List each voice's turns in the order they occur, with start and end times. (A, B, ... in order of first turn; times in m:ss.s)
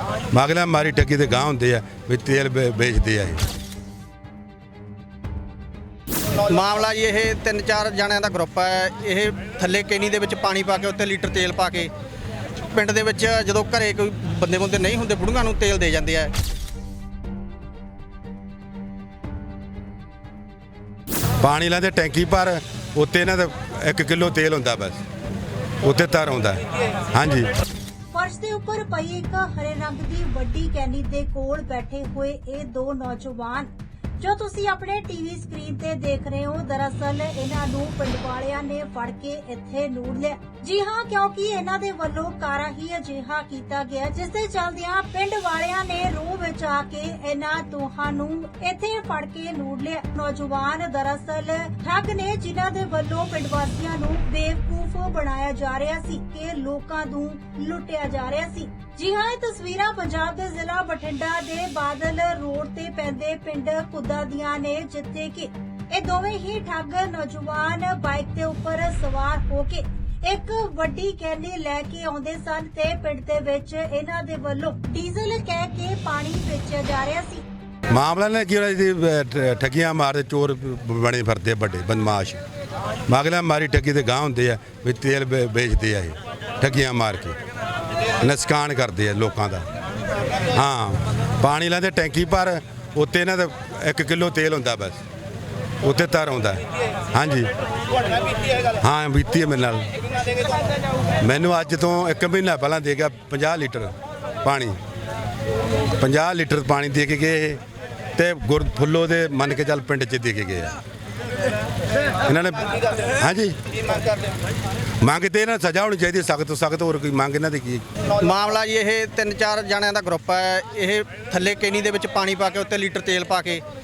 0:00.3-0:03.4 A
0:06.4-0:11.9 B
0:12.7-0:16.3 B
0:21.4-0:25.0 A
0:25.8-0:27.5 A
0:28.1-1:17.5 C
1:17.9-1:22.4 A
1:23.1-1:27.4 A
1:28.2-1:29.7 A
1:30.5-1:35.0 A
1:35.8-1:37.5 A
1:38.8-1:40.0 A
1:41.2-1:43.9 A
1:44.4-1:44.8 A
1:46.0-1:47.6 A
1:48.2-1:50.8 A
1:52.2-1:53.9 A
1:55.0-1:57.8 A
1:58.1-2:03.6 B